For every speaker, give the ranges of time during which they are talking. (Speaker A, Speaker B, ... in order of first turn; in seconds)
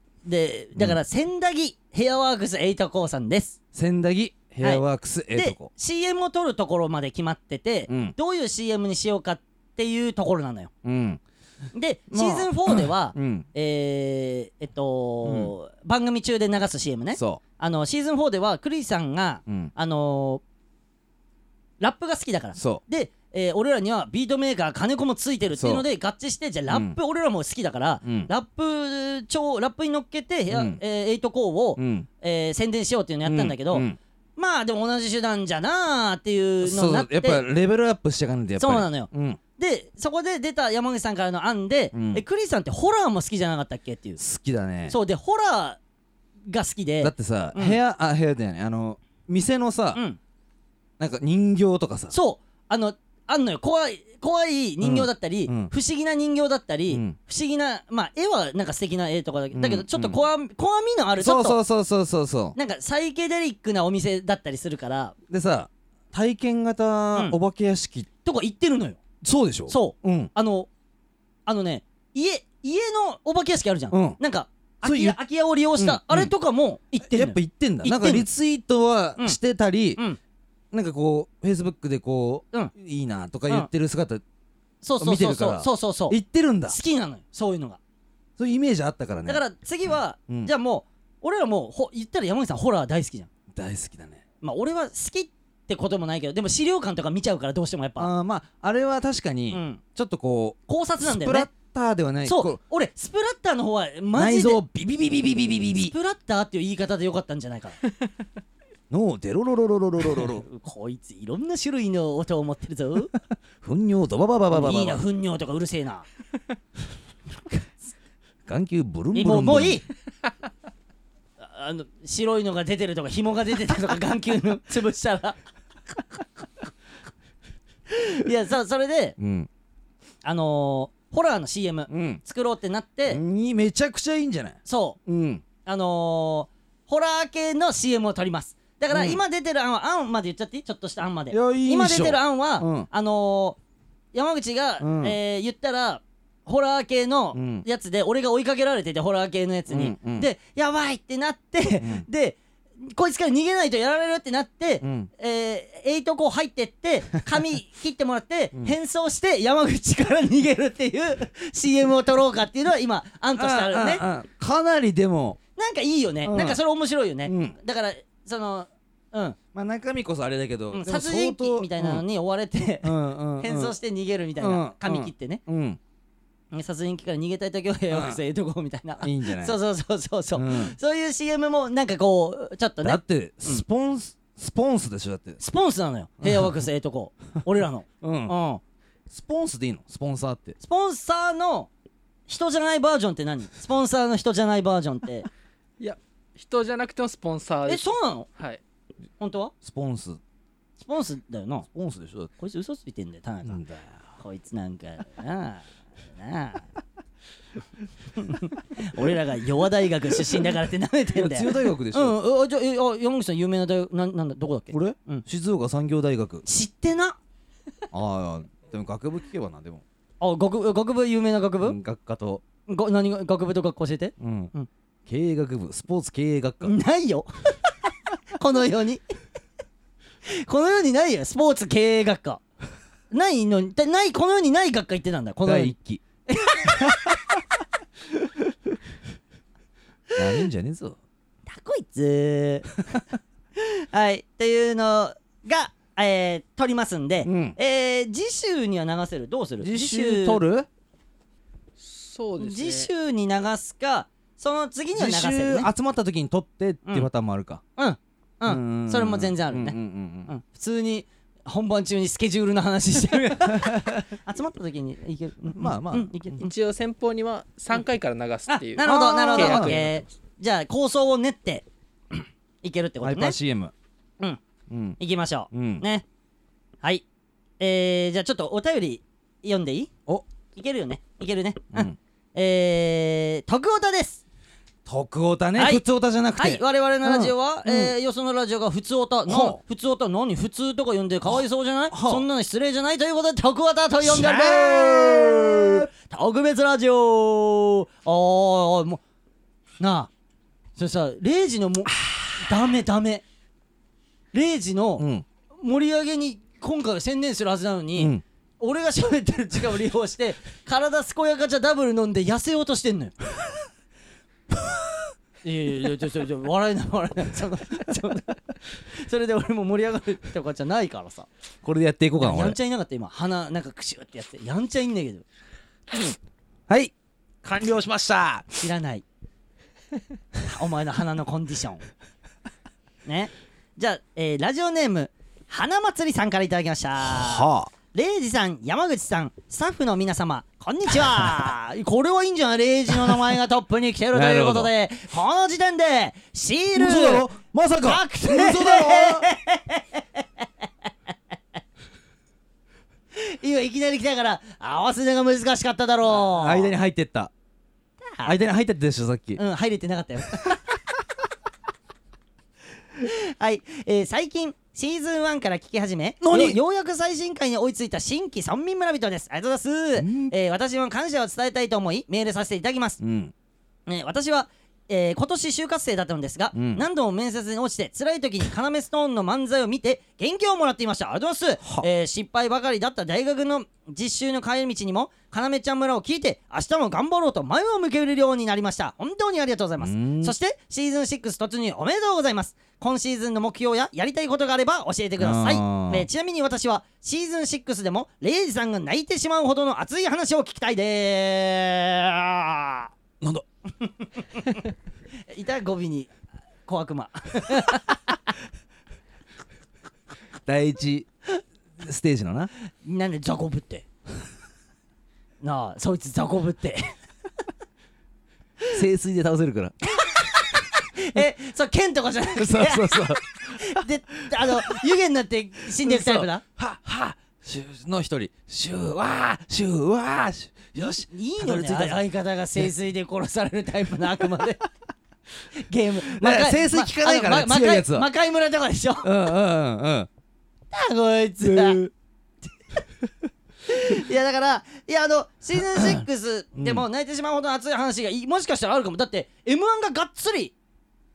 Speaker A: 0.2-3.5, 4.6-10.7, 11.7-20.4, 21.8-37.4, 38.6-44.2, 44.9-45.8, 46.5-47.8, 49.9-50.2, 52.1-61.6, 62.5-65.1, 68.2-69.0, 69.7-70.7, 71.5-78.3, 84.8-86.2, 86.7-87.8, 89.2-93.3, 94.4-98.1, 99.5-99.8, 100.7-101.5, 102.2-104.6, 105.7-107.8, 110.1-113.1, 114.5-116.1, 119.1-119.8, 121.4-125.4, 127.9-129.2, 130.2-133.2, 134.7-135.0, 135.6-143.6, 144.1-164.0, 165.6-169.4, 170.7-175.4, 176.5-183.6, 185.4-188.6, 190.6-191.7, 192.3-195.3, 197.7-198.3, 199.2-199.5, 200.8-201.7, 202.4-203.6, 204.2-205.6, 206.2-206.7, 208.2-215.2, 216.4-217.2, 220.2-221.8, 222.7-224.7, 226.6-227.3, 228.3-229.0, 230.2-232.4, 233.1-235.7, 236.2-237.2, 241.5-242.8, 243.6-250.4, 252.4-255.7, 257.8-266.5, 268.4-273.4, 275.0-276.0, 277.6-279.9, 280.5-284.2, 285.6-285.8, 286.4-299.0, 299.8-300.1, 300.8-303.2, 304.3-313.1, 315.4-321.3, 322.2-325.2, 328.6-329.0, 330.4-331.9, 333.1-350.2, 353.1-356.7, 359.4-360.6, 363.0-373.0, 373.9-402.9, 403.8-404.6, 405.3-406.1, 406.6-408.0, 412.8-413.8, 415.4-416.9, 420.0-426.4, 431.1-434.6, 435.5-439.1, 440.7-441.8, 443.7-450.5
Speaker B: 3.7-5.7, 7.9-8.1, 10.8-11.2, 12.1-13.5, 15.2-15.5, 17.1-17.4, 22.5-22.8, 25.6-25.8, 26.7-27.0, 28.0-28.3, 30.5-30.8, 31.8-32.1, 33.2-34.0, 36.6-39.4, 41.9-42.2, 44.2-45.0, 47.0-50.0, 51.0-52.1, 54.8-55.7, 56.9-57.1, 59.5-60.2, 61.2-62.5, 65.3-68.1, 69.2-70.3, 73.9-74.2, 74.8-75.2, 75.8-76.3, 77.0-80.0, 80.7-84.2, 85.0-86.8, 88.4-89.4, 93.5-94.2, 98.0-102.6, 104.1-105.9, 108.9-110.4, 113.6-115.0, 118.5-119.8, 129.2-129.5, 131.9-132.2, 133.1-135.4, 138.9-139.2, 141.3-142.9, 144.8-145.2, 147.3-147.6, 149.7-150.3, 154.8-155.1, 163.3-165.4, 166.2-166.6, 167.2-167.6, 169.5-172.0, 172.8-173.7, 174.4-175.8, 177.9-178.2, 179.0-179.6, 180.3-180.7, 182.8-185.4, 186.2-186.5, 188.0-188.3, 189.1-190.6, 199.6-200.2, 201.7-202.3, 203.4-204.0, 211.1-212.2, 214.7-216.4, 217.9-219.8, 221.6-222.4, 224.2-224.5, 225.1-226.7, 235.4-236.0, 236.6-237.0, 240.2-241.0, 247.2-247.6, 249.6-250.7, 254.9-257.6, 258.4-260.3, 263.5-264.0, 265.5-266.1, 268.8-269.8, 273.0-273.7, 274.7-275.0, 275.5-275.8, 284.9-287.9, 289.2-289.6, 291.9-292.2, 294.0-295.9, 305.0-305.2, 308.0-308.2, 321.6-322.6, 326.7-328.4, 337.0-337.7, 344.1-344.7, 346.8-349.3, 356.1-357.3, 358.2-359.4, 366.2-366.6, 370.0-370.3, 373.0-373.3, 376.5-376.8, 381.6-381.9, 389.8-390.3, 395.2-396.1, 410.4-411.1, 411.8-412.5, 418.7-419.8, 422.4-423.6, 424.5-424.8, 425.8-432.0, 436.1-438.1, 439.0-440.1, 441.4-441.9, 445.7-446.0, 446.6-446.8
Speaker C: 195.8-198.6, 251.8-252.9, 266.4-270.0